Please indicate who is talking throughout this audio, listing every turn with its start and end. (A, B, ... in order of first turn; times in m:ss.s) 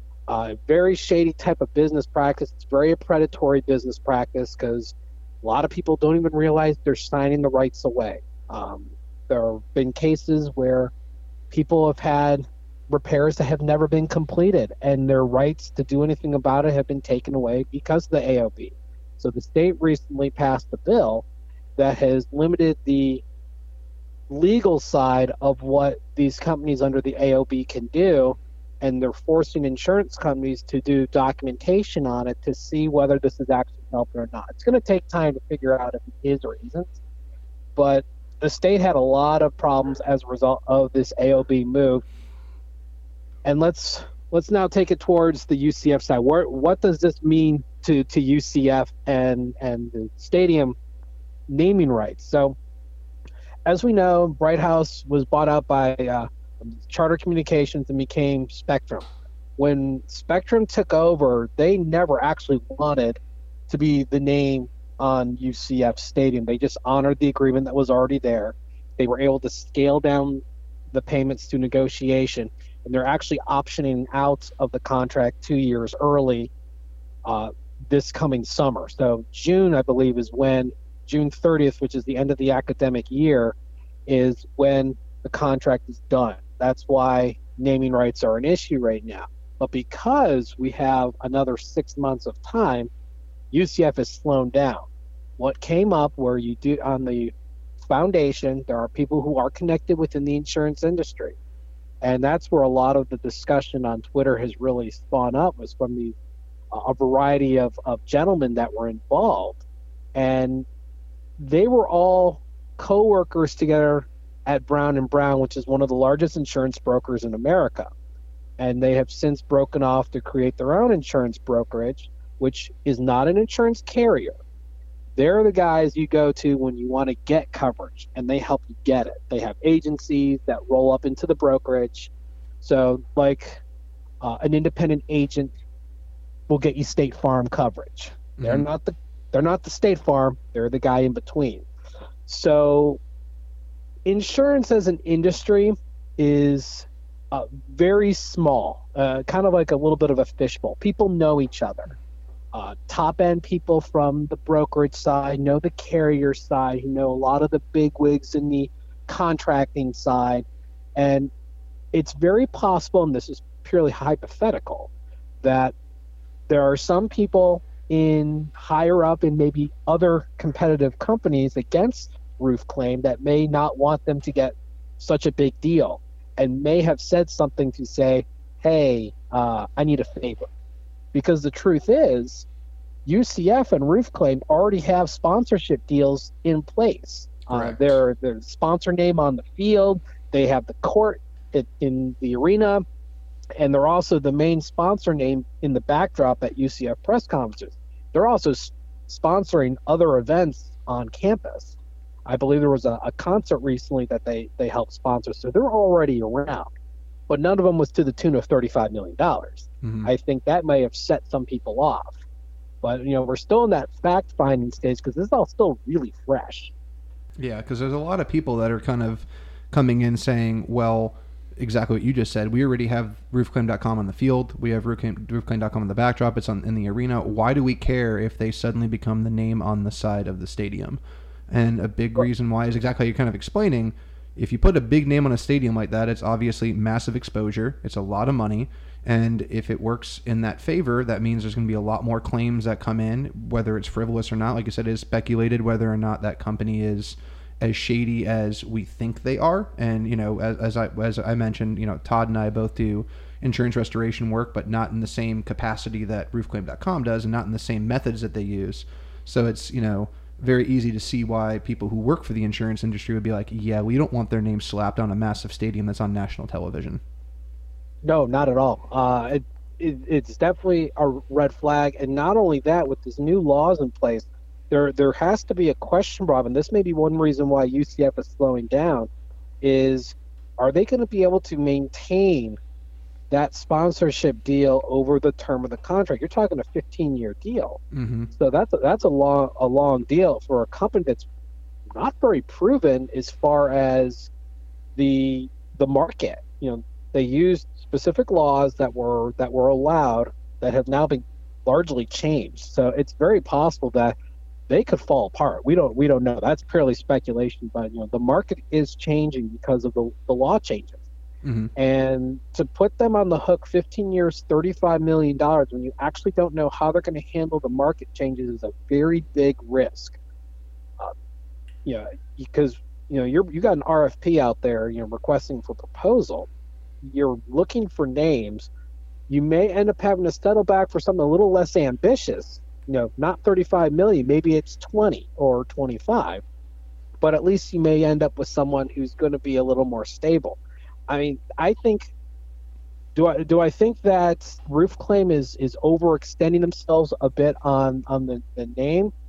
0:00.3-0:10.9 A
0:11.5-0:21.2 A
0:21.8-0:23.2 A
0:24.3-0:37.0 A
0:37.8-0:42.0 A
0:43.4-0:50.8 A
0:51.5-0:52.6 A
0:53.6-0:59.1 A
0:59.6-1:16.5 A
1:17.2-1:23.6 A
1:24.1-1:32.9 A
1:33.5-1:34.9 A
1:35.4-1:41.4 A
1:42.0-1:46.2 A
1:46.7-1:49.6 A
1:50.2-1:50.7 A
1:51.4-1:57.9 A
1:58.6-2:04.4 A
2:05.2-2:12.1 A
2:12.6-2:13.6 A
2:14.2-2:15.5 A
2:16.5-2:21.7 A
2:18.4-2:18.7 B
2:22.3-2:23.0 A
2:24.1-2:32.0 A
2:32.5-2:41.3 A
2:41.9-2:44.9 A
2:45.4-2:45.7 A
2:46.5-3:00.5 A
3:01.1-3:02.5 A
3:03.0-3:12.8 A
3:07.5-3:07.8 B
3:13.6-3:21.8 A
3:22.3-3:26.7 A
3:27.3-3:32.2 A
3:29.8-3:30.1 B
3:32.8-3:36.7 A
3:37.4-4:27.0 B
4:28.0-4:39.1 A
4:39.6-4:42.6 A
4:43.3-4:47.8 A
4:47.9-4:48.3 B
4:48.4-4:51.3 A
4:51.9-4:54.3 A
4:55.0-5:04.2 A
5:04.7-5:11.0 A
5:11.4-5:11.7 B
5:11.8-5:20.2 A
5:21.8-5:26.5 A
5:27.0-5:28.7 A
5:29.3-5:36.4 A
5:37.2-5:42.1 A
5:43.2-5:49.1 A